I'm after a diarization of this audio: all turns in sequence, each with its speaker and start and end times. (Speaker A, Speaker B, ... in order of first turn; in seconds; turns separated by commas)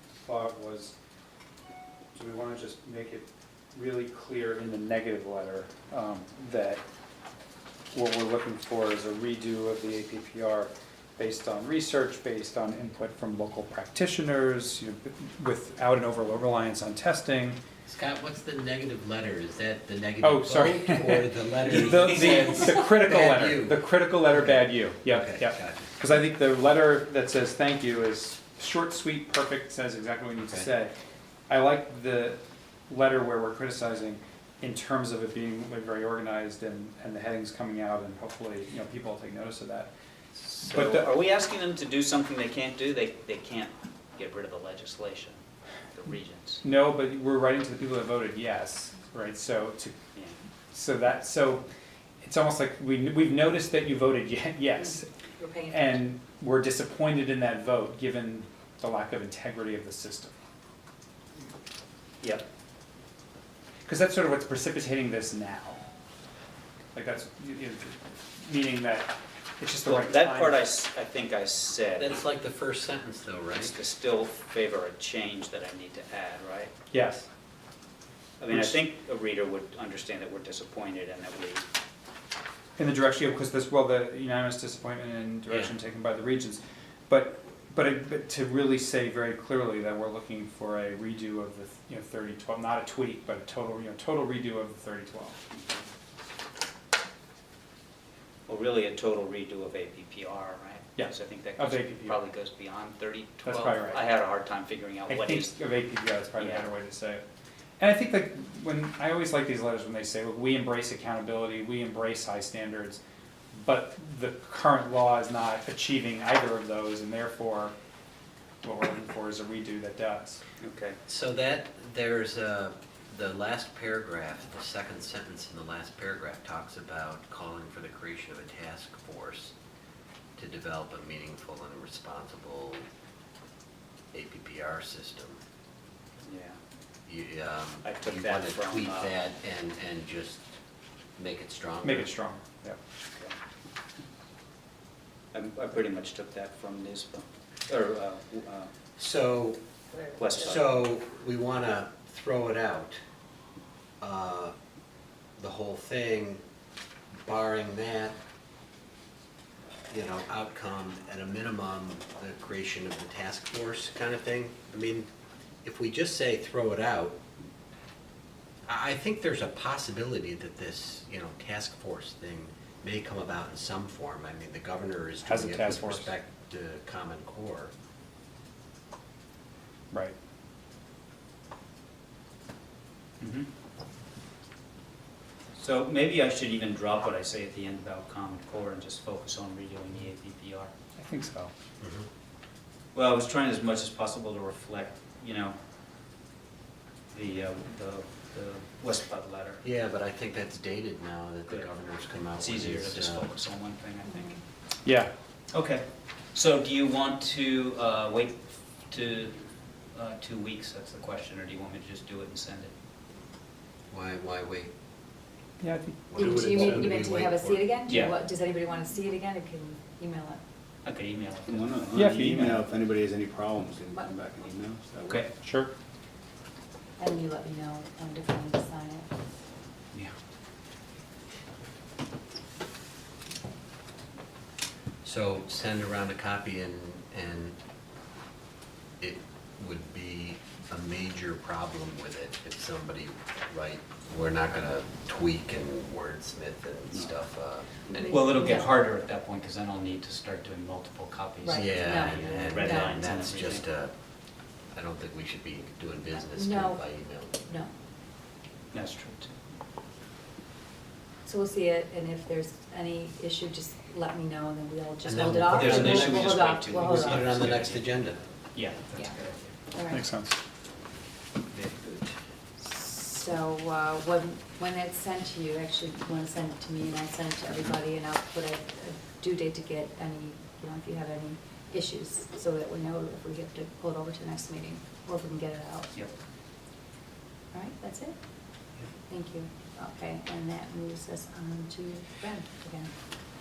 Speaker A: 0.2-0.9, Speaker A: 2.1-6.8, Speaker A: 7.9-17.6, Speaker B: 17.9-25.9, Speaker A: 20.2-30.9, Speaker C: 22.0-22.6, Speaker B: 30.4-30.7, Speaker A: 31.5-39.9, Speaker C: 40.4-45.4, Speaker A: 40.7-41.1, Speaker C: 45.9-46.6, Speaker A: 46.6-50.0, Speaker A: 50.7-51.6, Speaker A: 52.2-55.1, Speaker D: 55.4-56.0, Speaker A: 55.7-60.3, Speaker A: 63.9-65.8, Speaker A: 66.9-70.6, Speaker C: 69.8-72.2, Speaker B: 72.0-73.7, Speaker C: 73.6-76.7, Speaker A: 76.9-77.3, Speaker C: 78.4-81.7, Speaker A: 78.5-78.8, Speaker A: 82.8-95.4, Speaker B: 85.5-85.8, Speaker C: 98.5-105.5, Speaker A: 101.0-102.2, Speaker A: 103.4-104.0, Speaker A: 105.1-107.2, Speaker C: 106.4-106.7, Speaker A: 107.8-113.0, Speaker A: 113.5-117.8, Speaker A: 118.6-120.4, Speaker C: 120.6-121.0, Speaker B: 121.1-129.5, Speaker B: 130.4-132.9, Speaker B: 134.1-135.4, Speaker C: 136.2-136.6, Speaker B: 137.1-140.5, Speaker C: 137.8-139.2, Speaker B: 141.2-142.1, Speaker A: 141.8-142.8, Speaker C: 145.3-148.7, Speaker B: 149.0-149.6, Speaker C: 150.2-150.8, Speaker B: 150.4-153.0, Speaker B: 154.0-154.6, Speaker B: 155.4-156.4, Speaker B: 157.2-158.2, Speaker B: 159.9-165.1, Speaker B: 165.6-167.2, Speaker B: 168.7-177.7, Speaker A: 175.2-176.1, Speaker C: 183.2-183.5, Speaker C: 185.6-190.7, Speaker A: 191.0-191.5, Speaker B: 191.8-192.1, Speaker C: 192.9-195.6, Speaker C: 197.1-199.6, Speaker B: 199.6-203.3, Speaker C: 202.3-204.4, Speaker D: 204.1-204.4, Speaker A: 204.8-205.1, Speaker C: 205.5-209.4, Speaker C: 209.9-212.7, Speaker B: 213.9-214.7, Speaker A: 215.6-216.0, Speaker B: 216.1-217.7, Speaker D: 216.2-220.4, Speaker E: 216.2-217.2, Speaker C: 217.9-218.2, Speaker C: 220.8-222.2, Speaker E: 221.5-225.3, Speaker A: 221.9-222.7, Speaker A: 225.4-225.7, Speaker D: 227.0-229.1, Speaker B: 235.0-237.6, Speaker B: 239.0-247.9, Speaker D: 247.9-248.8, Speaker C: 247.9-253.7, Speaker D: 251.4-253.0, Speaker B: 251.5-253.9, Speaker B: 254.7-257.4, Speaker D: 256.1-256.8, Speaker C: 258.7-259.4, Speaker D: 261.2-267.2, Speaker B: 265.1-268.2, Speaker C: 265.2-267.9, Speaker C: 268.5-269.6, Speaker D: 269.7-270.1, Speaker A: 269.9-270.4, Speaker C: 271.5-272.0, Speaker D: 272.6-285.9, Speaker D: 287.5-288.2, Speaker D: 289.1-292.9